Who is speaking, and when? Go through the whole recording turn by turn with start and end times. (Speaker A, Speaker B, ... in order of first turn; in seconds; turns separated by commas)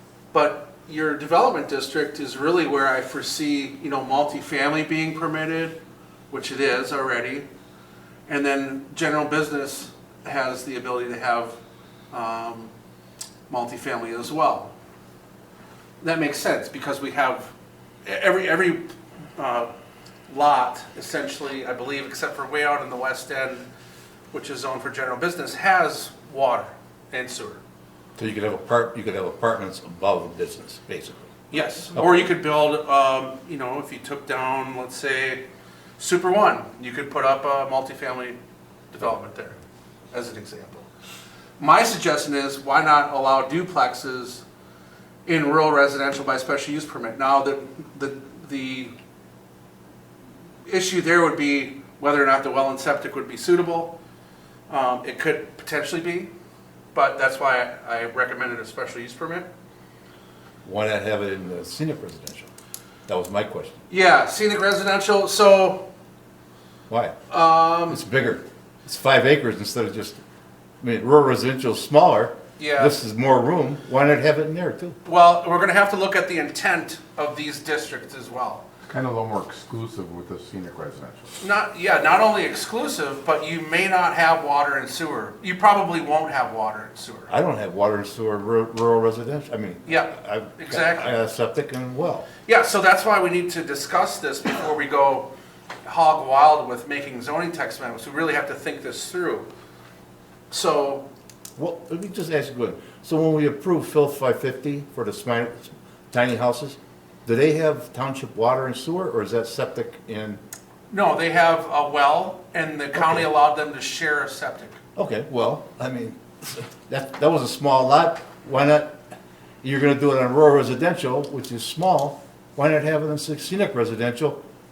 Speaker A: 0.3-5.8, Speaker A: 6.3-7.5, Speaker A: 8.3-11.6, Speaker A: 12.1-12.7, Speaker A: 13.5-14.7, Speaker A: 16.0-17.5, Speaker A: 18.1-19.7, Speaker A: 20.3-23.7, Speaker A: 24.3-27.6, Speaker B: 28.2-31.3, Speaker A: 31.5-35.4, Speaker A: 36.0-38.4, Speaker A: 38.9-39.6, Speaker A: 40.1-40.9, Speaker A: 41.6-44.4, Speaker A: 45.2-48.9, Speaker A: 50.7-54.0, Speaker A: 54.7-56.3, Speaker A: 56.9-59.5, Speaker B: 60.6-62.5, Speaker B: 63.1-63.8, Speaker A: 63.9-65.9, Speaker B: 66.9-67.3, Speaker A: 67.3-68.0, Speaker B: 67.8-70.2, Speaker B: 70.8-75.0, Speaker A: 72.6-73.0, Speaker A: 75.0-78.6, Speaker C: 78.9-81.4, Speaker A: 81.4-87.3, Speaker B: 87.3-92.3, Speaker A: 89.8-91.1, Speaker A: 92.5-95.3, Speaker A: 95.8-99.5, Speaker A: 100.5-101.1, Speaker B: 101.6-110.4, Speaker A: 110.9-114.8, Speaker B: 113.0-113.3, Speaker B: 115.0-119.0, Speaker B: 119.6-124.4